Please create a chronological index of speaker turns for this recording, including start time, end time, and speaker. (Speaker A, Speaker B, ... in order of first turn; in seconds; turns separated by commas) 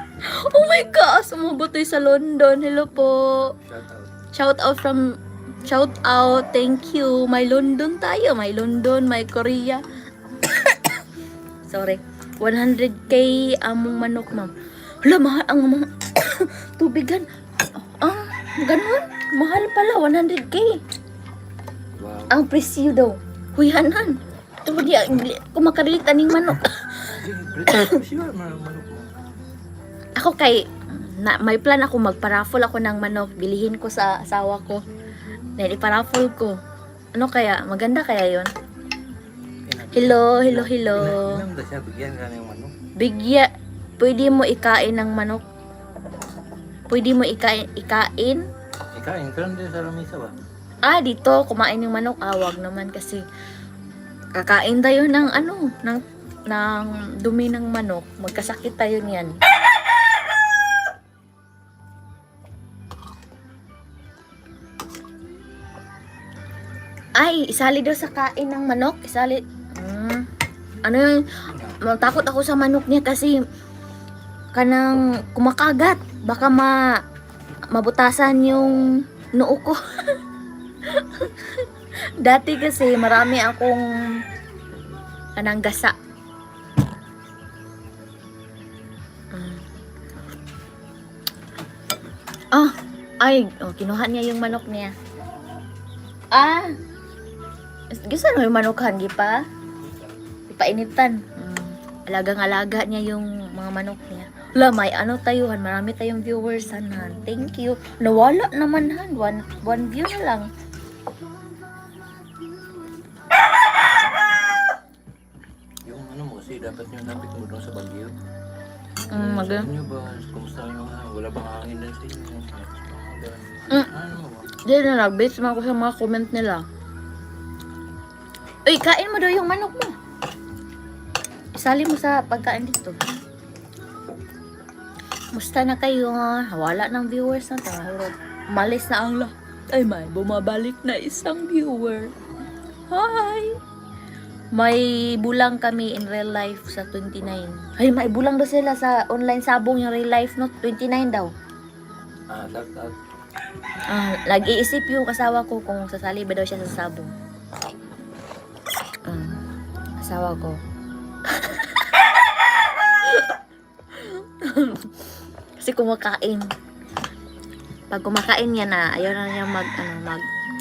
Speaker A: 0.2-3.5, Speaker B: 3.6-4.1, Speaker A: 4.3-9.8, Speaker A: 11.7-14.5, Speaker A: 15.0-17.3, Speaker A: 17.8-20.8, Speaker B: 22.0-22.3, Speaker A: 22.3-27.1, Speaker B: 27.1-29.2, Speaker A: 30.2-34.8, Speaker A: 35.6-36.6, Speaker A: 37.1-38.5, Speaker B: 39.7-42.7, Speaker A: 39.9-41.4, Speaker A: 43.0-45.5, Speaker A: 46.9-48.5, Speaker B: 49.0-50.3, Speaker A: 50.8-53.2, Speaker A: 54.4-59.4, Speaker A: 67.2-70.3, Speaker A: 70.8-73.4, Speaker A: 74.5-77.0, Speaker A: 77.7-79.8, Speaker A: 80.9-81.7, Speaker A: 82.2-83.8, Speaker A: 85.4-86.0, Speaker A: 89.3-89.7, Speaker A: 92.5-94.9, Speaker A: 96.3-96.8, Speaker A: 97.9-99.5, Speaker A: 100.5-110.5, Speaker B: 115.9-118.1, Speaker A: 119.1-119.7, Speaker B: 119.2-124.5, Speaker A: 124.7-126.7, Speaker A: 128.7-130.0, Speaker A: 131.6-133.0, Speaker A: 135.3-142.1, Speaker A: 142.9-143.6, Speaker A: 144.5-151.3, Speaker B: 152.3-152.9, Speaker A: 153.9-157.1, Speaker A: 159.1-159.4, Speaker A: 160.0-160.6, Speaker A: 161.3-161.8, Speaker A: 163.9-164.9, Speaker A: 165.6-166.5, Speaker A: 167.9-170.2